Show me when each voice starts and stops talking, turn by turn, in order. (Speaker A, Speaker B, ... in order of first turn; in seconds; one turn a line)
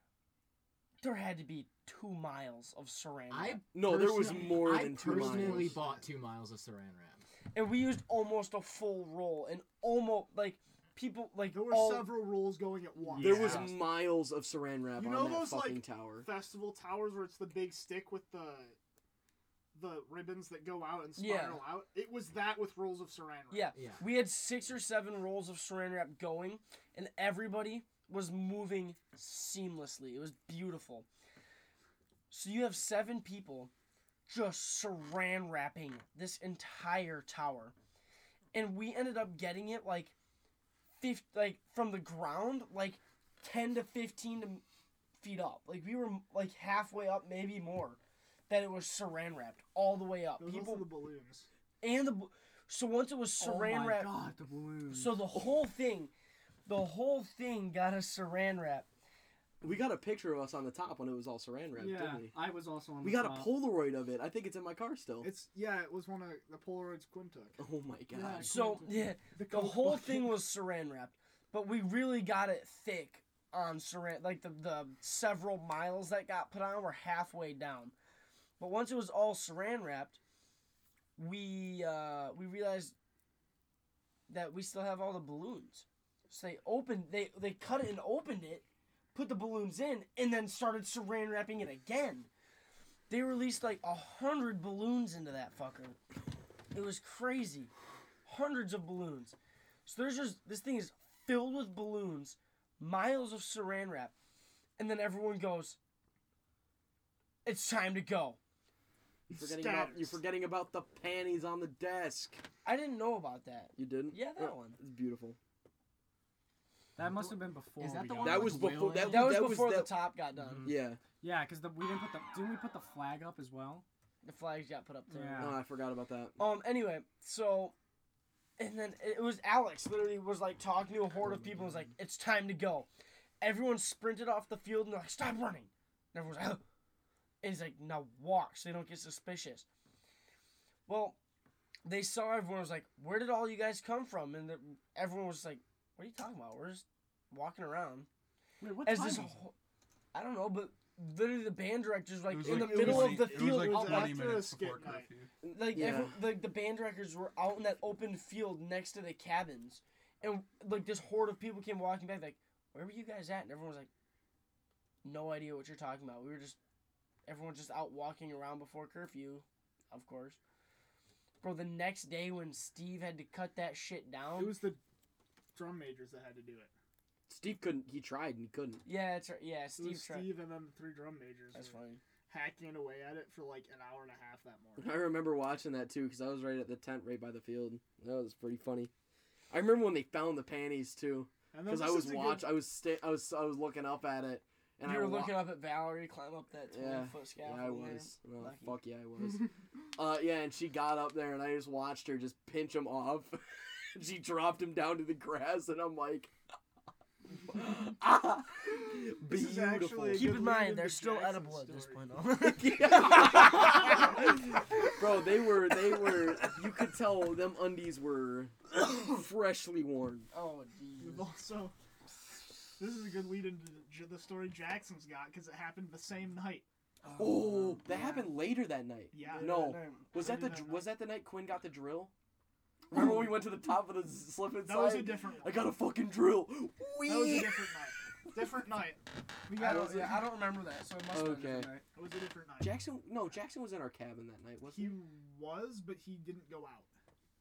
Speaker A: 1.0-3.6
Speaker B: 3.3-7.2
Speaker C: 3.7-5.8
Speaker D: 4.8-6.1
Speaker A: 7.5-12.2
Speaker D: 11.5-13.8
Speaker E: 13.0-13.8
Speaker C: 13.2-16.3
Speaker D: 15.0-18.8
Speaker D: 19.8-23.7
Speaker A: 21.2-21.6
Speaker A: 23.5-31.1
Speaker B: 23.8-24.0
Speaker A: 32.3-33.7
Speaker A: 34.3-37.8
Speaker A: 38.5-40.1
Speaker A: 41.0-44.6
Speaker A: 45.2-50.9
Speaker D: 50.4-51.5
Speaker A: 51.8-54.2
Speaker E: 53.4-55.3
Speaker A: 54.9-56.1
Speaker A: 56.7-58.9
Speaker C: 59.6-62.4
Speaker E: 61.7-63.5
Speaker C: 63.0-65.3
Speaker D: 65.2-67.6
Speaker C: 67.6-68.6
Speaker E: 68.1-69.1
Speaker A: 68.5-77.9
Speaker D: 69.3-70.4
Speaker A: 78.6-80.2
Speaker A: 81.2-82.9
Speaker A: 84.3-92.3
Speaker A: 93.1-96.0
Speaker A: 96.7-97.7
Speaker A: 98.3-104.1
Speaker A: 104.8-105.8
Speaker A: 107.5-108.4
Speaker C: 109.3-112.4
Speaker D: 109.3-110.2
Speaker A: 112.6-114.8
Speaker C: 113.8-115.4
Speaker E: 117.0-119.3
Speaker A: 118.2-118.4
Speaker C: 118.2-120.0
Speaker A: 119.0-120.8
Speaker C: 120.6-121.0
Speaker E: 121.2-123.8
Speaker A: 124.2-125.6
Speaker E: 125.1-125.6
Speaker C: 125.4-126.4
Speaker A: 126.4-127.8
Speaker A: 128.6-132.9
Speaker A: 133.4-136.6
Speaker A: 137.4-139.7
Speaker A: 140.9-141.2
Speaker A: 141.8-148.1
Speaker E: 148.6-149.4
Speaker A: 148.8-149.5
Speaker A: 150.1-154.2
Speaker F: 152.3-155.3
Speaker D: 152.4-155.1
Speaker A: 155.4-163.9
Speaker C: 155.5-156.2
Speaker A: 165.0-166.6
Speaker A: 167.3-170.4
Speaker A: 171.4-174.6
Speaker D: 174.4-174.8
Speaker D: 175.5-176.7
Speaker C: 177.3-178.8
Speaker A: 178.8-180.4
Speaker D: 179.8-185.0
Speaker A: 181.5-182.0
Speaker C: 184.8-188.9
Speaker C: 189.5-195.4
Speaker D: 191.5-192.6
Speaker A: 194.8-198.8
Speaker C: 196.7-206.3
Speaker C: 207.5-210.4
Speaker D: 209.2-212.2
Speaker A: 210.1-214.9
Speaker C: 212.4-220.3
Speaker A: 216.1-216.5
Speaker A: 218.8-219.1
Speaker A: 220.3-221.3
Speaker D: 221.0-221.8
Speaker D: 222.8-226.7
Speaker A: 227.0-228.3
Speaker C: 227.2-232.1
Speaker D: 229.1-230.9
Speaker A: 229.2-230.5
Speaker C: 232.9-237.7
Speaker D: 232.9-233.2
Speaker D: 234.6-235.7
Speaker D: 237.0-240.2
Speaker A: 239.5-241.8
Speaker C: 239.6-240.2
Speaker C: 241.1-241.7
Speaker D: 241.9-242.8
Speaker C: 242.6-245.0
Speaker D: 244.7-246.9